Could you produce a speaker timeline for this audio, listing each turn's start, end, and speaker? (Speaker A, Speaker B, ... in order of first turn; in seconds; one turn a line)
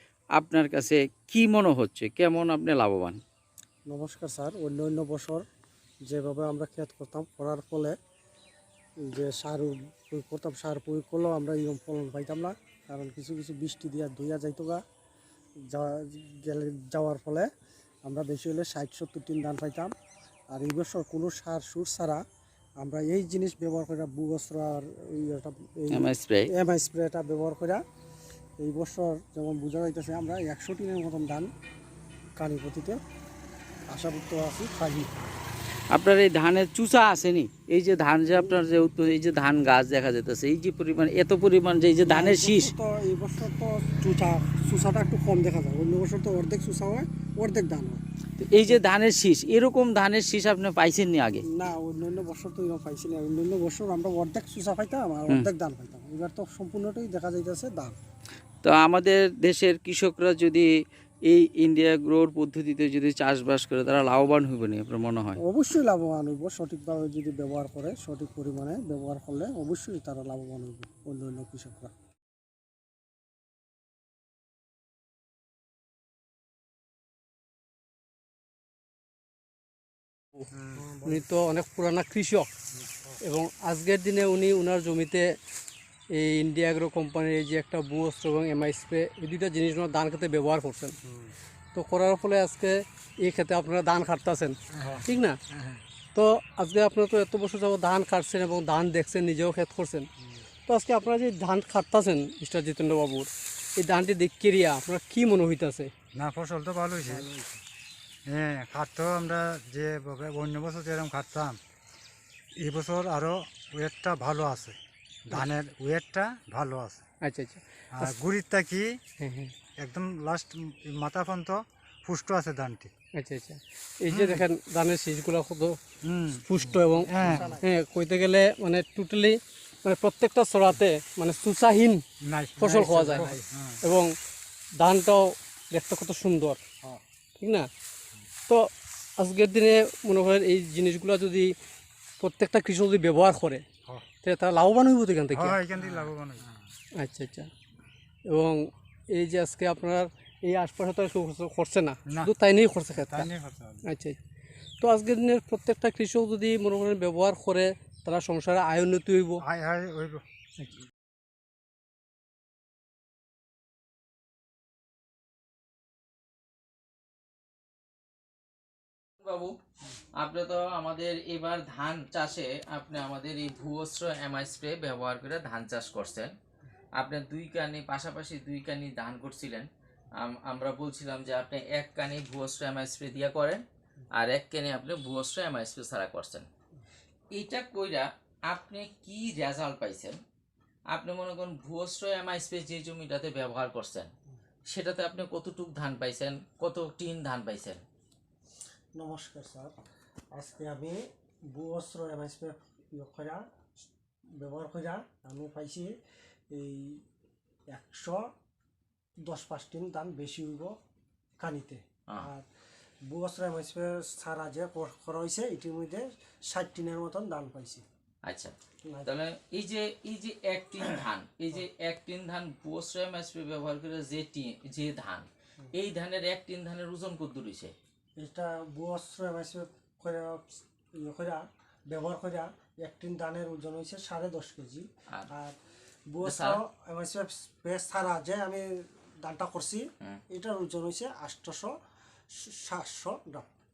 Speaker A: 0.3-3.2
Speaker B: 3.9-5.4
Speaker B: 6.0-7.9
Speaker B: 9.1-14.8
Speaker B: 15.7-17.5
Speaker B: 18.0-19.9
Speaker B: 20.5-22.2
Speaker B: 22.8-27.8
Speaker A: 25.9-26.5
Speaker B: 28.6-31.5
Speaker B: 32.4-33.0
Speaker B: 33.9-35.1
Speaker A: 35.9-42.7
Speaker B: 42.0-48.0
Speaker A: 48.4-51.4
Speaker B: 51.5-58.0
Speaker A: 58.6-60.7
Speaker A: 61.3-65.4
Speaker B: 65.4-71.9
Speaker C: 80.5-80.8
Speaker B: 80.7-81.2
Speaker D: 81.0-82.5
Speaker D: 83.2-85.3
Speaker D: 86.1-91.0
Speaker B: 91.1-91.3
Speaker D: 91.7-95.4
Speaker C: 94.7-95.8
Speaker D: 96.1-100.1
Speaker D: 100.7-105.9
Speaker C: 106.1-107.3
Speaker B: 107.0-107.6
Speaker C: 108.3-111.6
Speaker C: 112.6-117.0
Speaker D: 117.2-118.1
Speaker C: 117.9-119.0
Speaker D: 119.2-119.5
Speaker C: 119.8-122.9
Speaker D: 123.1-125.8
Speaker C: 124.1-124.4
Speaker C: 126.0-127.5
Speaker D: 126.4-132.0
Speaker B: 127.1-127.7
Speaker C: 132.2-133.8
Speaker D: 132.6-134.1
Speaker D: 134.8-136.6
Speaker D: 137.4-137.7
Speaker D: 138.5-141.5
Speaker D: 142.2-143.6
Speaker D: 144.2-145.6
Speaker C: 145.3-146.4
Speaker D: 147.0-147.5
Speaker D: 148.3-153.3
Speaker C: 152.1-152.3
Speaker C: 152.9-153.8
Speaker D: 153.8-154.2
Speaker D: 154.8-159.4
Speaker C: 159.4-160.2
Speaker A: 169.2-169.6
Speaker A: 170.2-176.3
Speaker A: 177.0-179.7
Speaker A: 180.2-183.6
Speaker A: 184.1-186.5
Speaker A: 187.3-190.2
Speaker A: 190.9-194.1
Speaker A: 194.7-197.8
Speaker B: 198.9-199.7
Speaker B: 200.3-201.0
Speaker B: 201.5-203.4
Speaker B: 204.4-205.9
Speaker B: 206.5-207.0
Speaker B: 207.7-208.2
Speaker B: 209.2-210.7
Speaker B: 211.4-212.4
Speaker B: 213.1-217.8
Speaker A: 218.2-218.5
Speaker A: 219.0-227.7
Speaker B: 228.2-235.5
Speaker B: 236.1-238.6
Speaker A: 236.2-236.6
Speaker B: 239.2-241.7
Speaker B: 242.4-243.5